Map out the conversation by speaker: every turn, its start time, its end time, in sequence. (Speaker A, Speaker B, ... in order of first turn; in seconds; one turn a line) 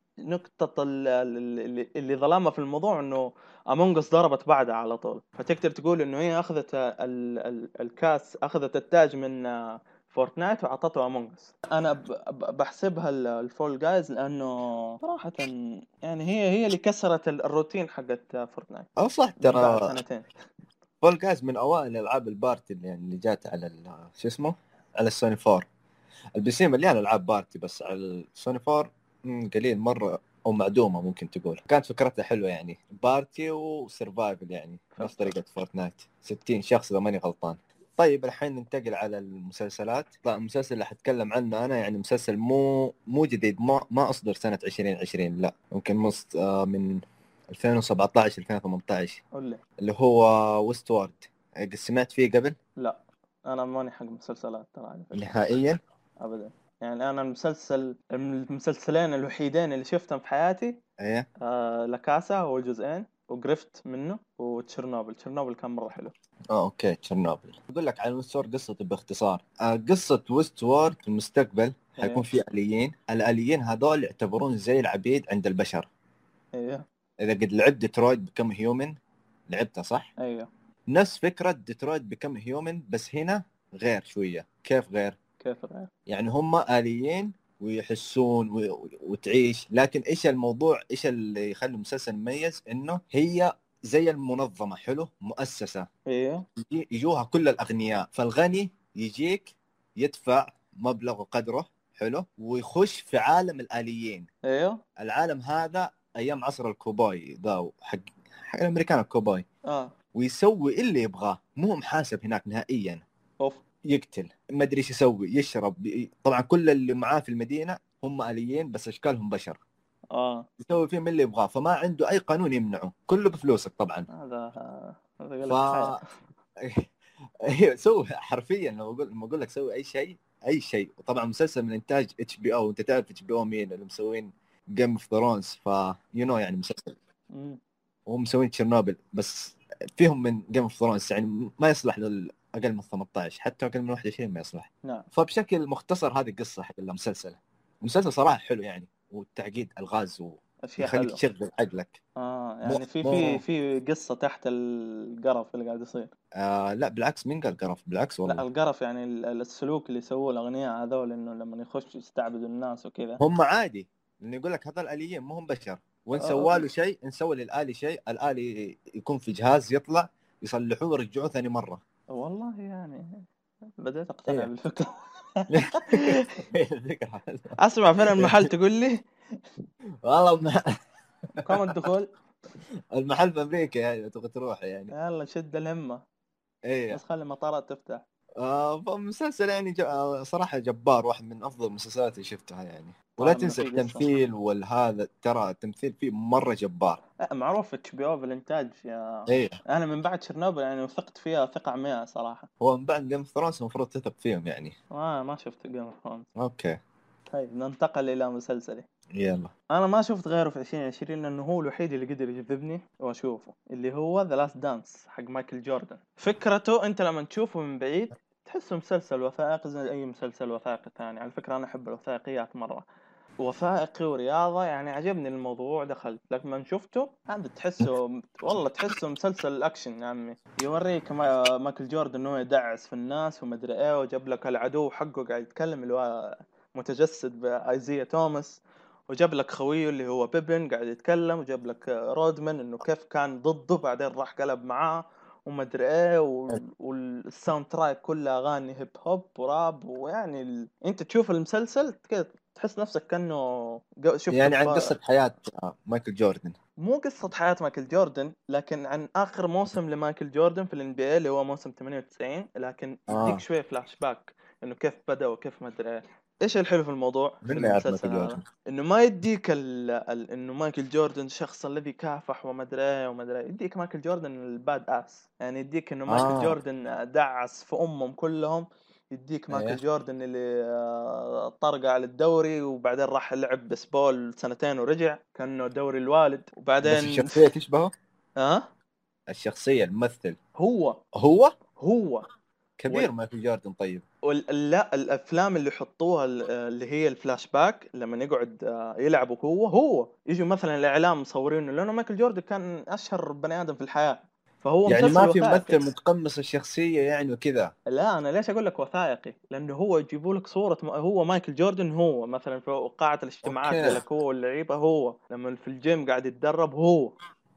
Speaker A: 0.2-18.9
Speaker B: 19.0-20.0
Speaker A: 19.4-20.3
Speaker B: 21.0-25.7
Speaker B: 26.4-49.2
Speaker A: 34.9-35.4
Speaker A: 49.3-49.6
Speaker B: 49.8-52.6
Speaker A: 52.8-55.3
Speaker B: 55.1-55.8
Speaker A: 56.2-60.8
Speaker B: 61.0-61.3
Speaker A: 61.4-66.1
Speaker B: 66.5-75.9
Speaker A: 72.0-72.2
Speaker A: 76.5-76.8
Speaker B: 77.2-78.9
Speaker B: 79.5-80.1
Speaker A: 80.2-80.5
Speaker B: 80.9-85.2
Speaker A: 85.4-85.9
Speaker B: 86.1-95.9
Speaker A: 96.1-96.5
Speaker B: 96.6-104.3
Speaker A: 104.5-104.8
Speaker B: 105.0-109.4
Speaker A: 109.7-109.9
Speaker B: 110.1-113.0
Speaker B: 113.9-119.6
Speaker A: 120.2-120.5
Speaker B: 120.6-124.1
Speaker A: 124.1-126.0
Speaker B: 125.5-126.0
Speaker B: 126.6-126.9
Speaker B: 127.5-136.9
Speaker A: 137.3-137.6
Speaker B: 138.1-152.0
Speaker A: 150.7-151.2
Speaker A: 152.2-156.1
Speaker B: 152.7-153.4
Speaker B: 156.4-158.4
Speaker A: 158.3-163.2
Speaker B: 163.2-171.8
Speaker A: 166.2-166.6
Speaker A: 172.1-173.2
Speaker A: 173.8-176.3
Speaker B: 175.5-177.6
Speaker A: 177.6-179.0
Speaker B: 178.1-178.5
Speaker B: 180.0-180.7
Speaker A: 181.4-182.1
Speaker B: 182.9-184.9
Speaker A: 184.9-186.0
Speaker B: 186.7-187.0
Speaker A: 186.9-188.0
Speaker B: 188.4-197.0
Speaker A: 193.2-194.1
Speaker A: 197.3-202.5
Speaker B: 199.3-199.6
Speaker B: 202.6-204.8
Speaker A: 204.9-206.3
Speaker B: 206.4-206.8
Speaker A: 207.3-208.9
Speaker B: 209.1-209.5
Speaker A: 209.7-222.8
Speaker A: 223.4-254.9
Speaker B: 254.3-256.6
Speaker A: 256.8-287.4
Speaker B: 263.1-263.4
Speaker B: 267.4-268.4
Speaker B: 276.1-276.6
Speaker B: 279.5-279.8
Speaker B: 286.8-287.9
Speaker A: 288.4-288.7
Speaker B: 289.3-290.4
Speaker A: 290.6-291.0
Speaker B: 291.1-291.5
Speaker A: 291.8-292.2
Speaker B: 292.8-294.0
Speaker A: 294.3-305.8
Speaker B: 304.9-307.7
Speaker A: 307.9-317.1
Speaker B: 313.4-314.0